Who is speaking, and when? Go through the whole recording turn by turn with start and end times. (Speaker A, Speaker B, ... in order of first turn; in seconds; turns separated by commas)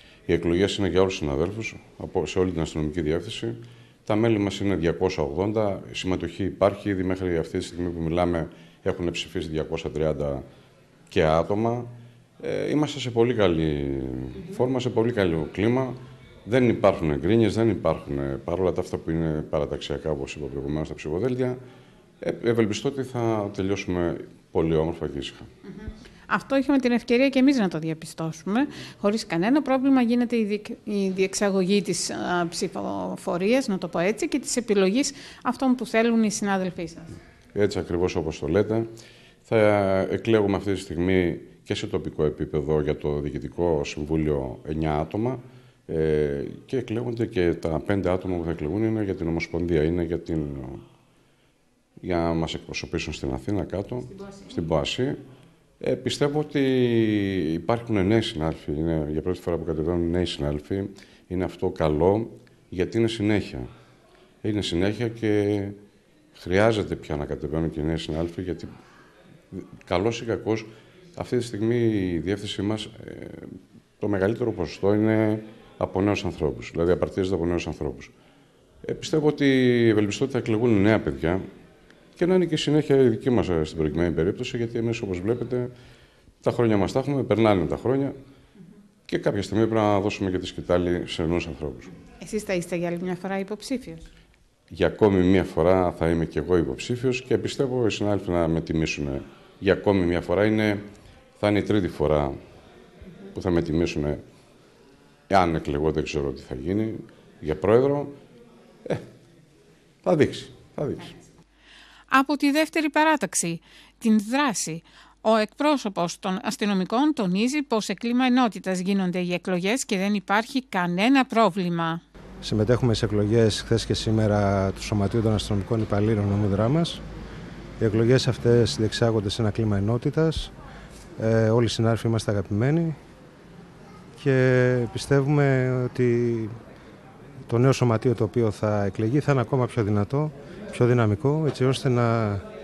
Speaker A: 0.3-10.4, Speaker A: 11.1-21.6, Speaker A: 22.2-25.5, Speaker B: 25.6-37.1, Speaker A: 37.5-38.9, Speaker A: 39.5-50.8, Speaker A: 52.0-55.2, Speaker A: 55.8-63.7, Speaker A: 64.4-65.8, Speaker A: 66.3-68.7, Speaker A: 69.5-78.1, Speaker A: 78.8-81.4, Speaker A: 82.2-85.7, Speaker A: 86.4-88.1, Speaker A: 89.1-91.9, Speaker B: 92.2-94.0, Speaker A: 94.7-100.8, Speaker A: 101.4-102.4, Speaker A: 103.3-104.2, Speaker A: 105.3-108.2, Speaker A: 110.0-111.1, Speaker B: 112.1-122.0, Speaker C: 122.4-127.0, Speaker C: 127.8-130.5, Speaker C: 131.2-133.0, Speaker C: 134.2-136.6, Speaker C: 137.5-142.5